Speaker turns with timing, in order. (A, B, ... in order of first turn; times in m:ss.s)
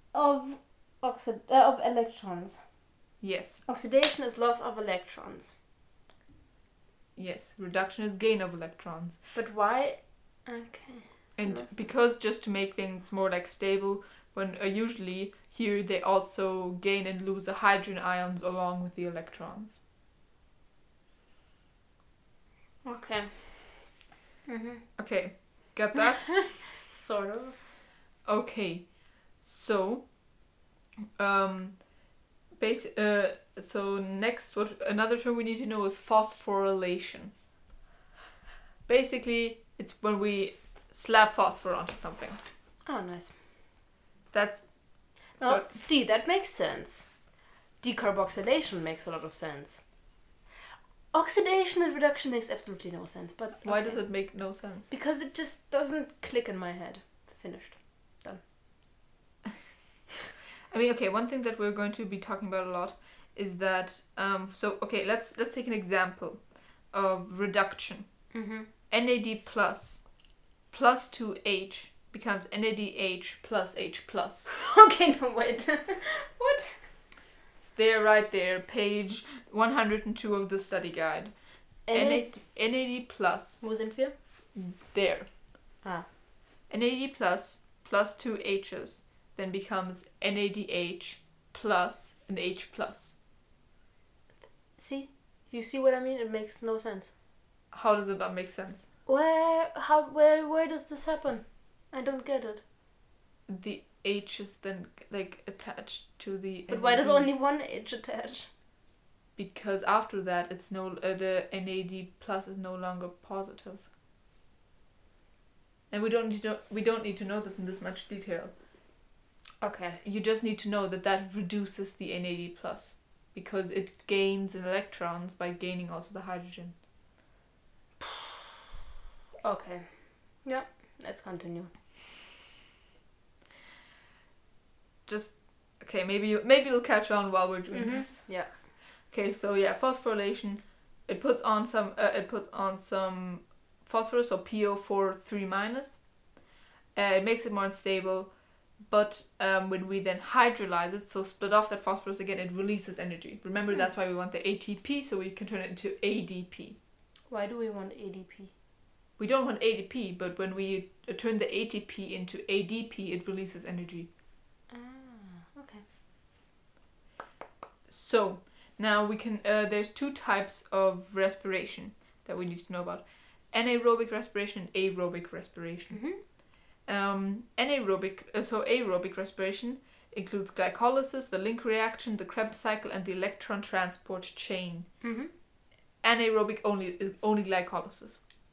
0:00.1-0:02.6 A
0:03.2-0:03.6 B
0:03.7-0:05.5 A
0:07.2-0:09.2 B
0:09.3-0:11.8 A
0:11.4-0:19.8 B
0:22.8-0:23.9 A
0:24.5-0:24.9 A
0:25.0-0:26.7 B
0:26.7-0:27.7 A
0:28.2-0:30.1 B
0:31.2-0:31.8 B
0:32.6-0:37.3 B
0:38.9-0:42.4 B
0:42.8-0:43.4 A
0:44.3-0:44.7 B
0:45.3-0:45.8 B
0:45.4-0:47.1 A
0:47.8-0:49.8 A
0:51.1-0:54.2 A
0:53.6-0:54.9 B
0:54.9-0:58.4 A
1:00.7-1:08.1 B
1:08.3-1:08.7 A
1:08.9-1:10.0 B
1:10.7-1:14.5 B
1:14.5-1:16.8 A
1:17.6-1:21.3 B
1:21.9-1:22.3 A
1:21.9-1:23.6 B
1:23.6-1:24.1 A
1:24.5-1:25.3 B
1:26.7-1:33.2 B
1:34.8-1:37.1 A
1:37.7-1:38.8 B
1:39.1-1:42.6 A
1:43.5-1:47.3 B
1:46.7-1:48.5 A
1:49.4-1:53.9 B
1:55.9-1:58.5 B
1:59.6-2:00.0 A
2:00.0-2:06.8 B
2:09.4-2:11.7 A
2:15.1-2:26.0 B
2:17.7-2:18.5 A
2:27.0-2:28.3 B
2:28.8-2:36.8 B
2:37.3-2:38.5 A
2:39.2-2:44.1 B
2:44.7-2:45.8 A
2:47.9-2:56.0 B
2:55.9-2:56.2 A
2:56.8-3:04.9 B
3:05.0-3:05.3 A
3:06.0-3:08.2 B